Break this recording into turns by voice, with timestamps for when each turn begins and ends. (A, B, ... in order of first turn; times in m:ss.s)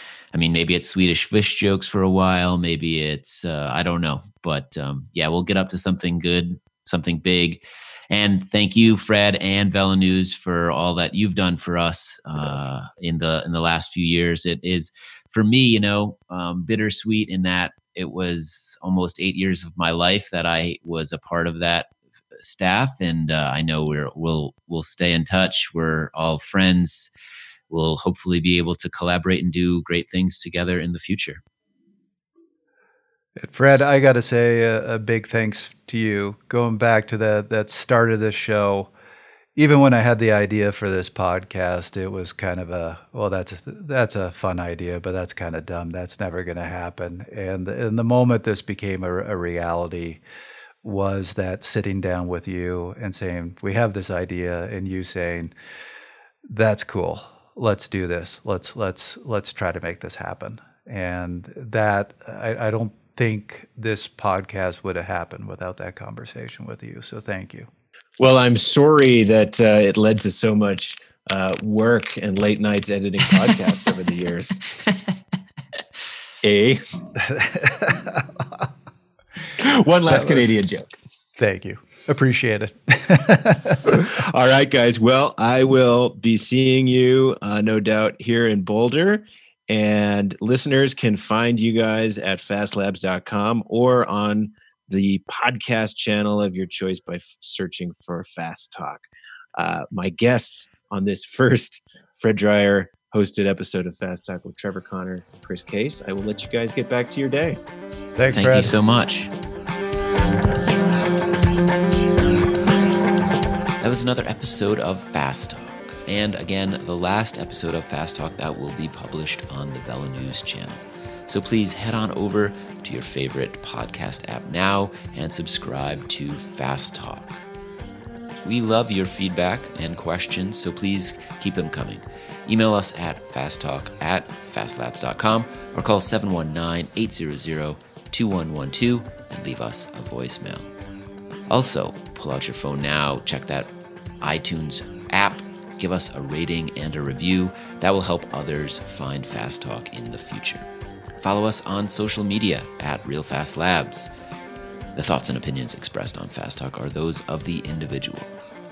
0:00.3-0:27.1 A
0:27.7-0:31.4 A
0:33.4-0:38.9 B
0:39.6-0:50.2 B
0:50.8-0:55.5 B
0:56.5-1:07.7 B
1:08.2-1:14.6 C
1:16.4-1:16.8 C
1:17.3-1:18.2 B
1:19.6-1:20.9 C
1:20.1-1:20.5 B
1:21.4-1:24.0 B
1:23.8-1:39.0 C
1:39.6-1:47.6 C
1:48.2-1:48.7 B
1:48.3-1:49.3 A
1:53.8-2:07.4 A
2:08.4-2:20.7 A
2:21.5-2:30.7 A
2:31.2-2:34.1 A
2:35.0-2:38.3 A